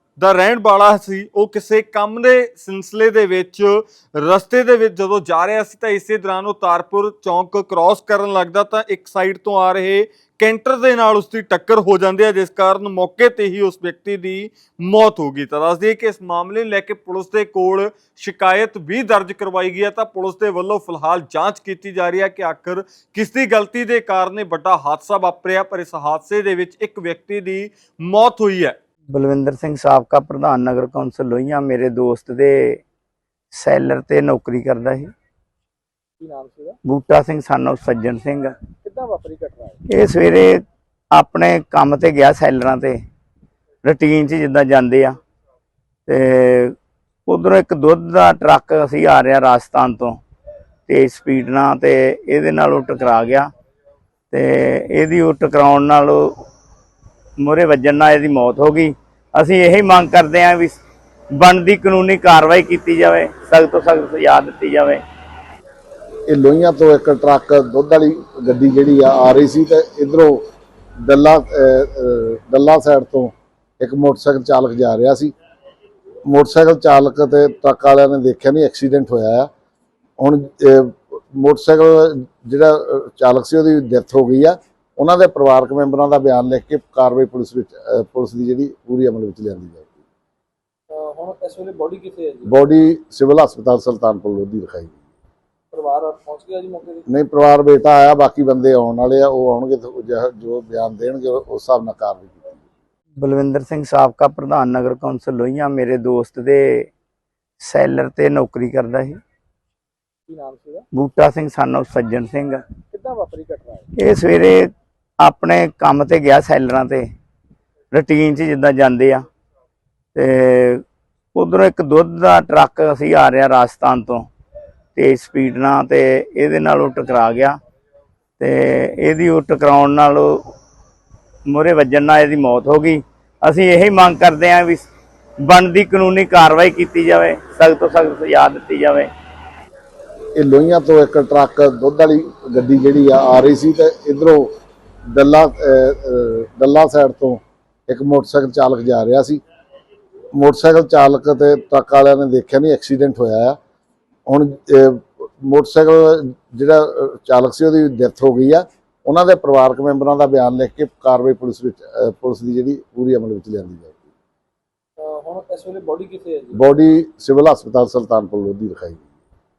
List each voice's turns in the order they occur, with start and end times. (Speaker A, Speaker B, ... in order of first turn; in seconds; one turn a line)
Speaker A: 0.2-28.7
Speaker B: 29.1-32.8
Speaker B: 33.5-35.1
Speaker C: 36.2-36.8
Speaker B: 36.9-38.6
Speaker C: 38.8-39.8
Speaker B: 39.9-40.6
Speaker B: 41.1-43.0
Speaker B: 43.8-45.2
Speaker B: 46.1-46.7
Speaker B: 47.3-50.2
Speaker B: 50.9-53.5
Speaker B: 54.3-56.3
Speaker B: 57.4-60.8
Speaker B: 61.3-65.0
Speaker D: 66.3-70.4
Speaker D: 71.0-75.3
Speaker D: 76.3-79.5
Speaker D: 80.2-90.0
Speaker C: 90.9-92.6
Speaker D: 92.4-95.0
Speaker C: 95.7-97.0
Speaker D: 97.1-102.6
Speaker B: 103.2-106.9
Speaker B: 107.6-109.2
Speaker C: 110.3-110.8
Speaker B: 110.9-112.6
Speaker C: 112.9-113.9
Speaker B: 114.0-117.1
Speaker B: 117.9-119.2
Speaker B: 120.1-120.8
Speaker B: 121.3-124.3
Speaker B: 125.0-127.6
Speaker B: 128.4-130.5
Speaker B: 131.5-134.9
Speaker B: 135.4-139.1
Speaker D: 140.4-144.5
Speaker D: 145.1-149.4
Speaker D: 150.3-153.6
Speaker D: 154.3-164.1
Speaker C: 165.0-166.6
Speaker D: 166.5-169.0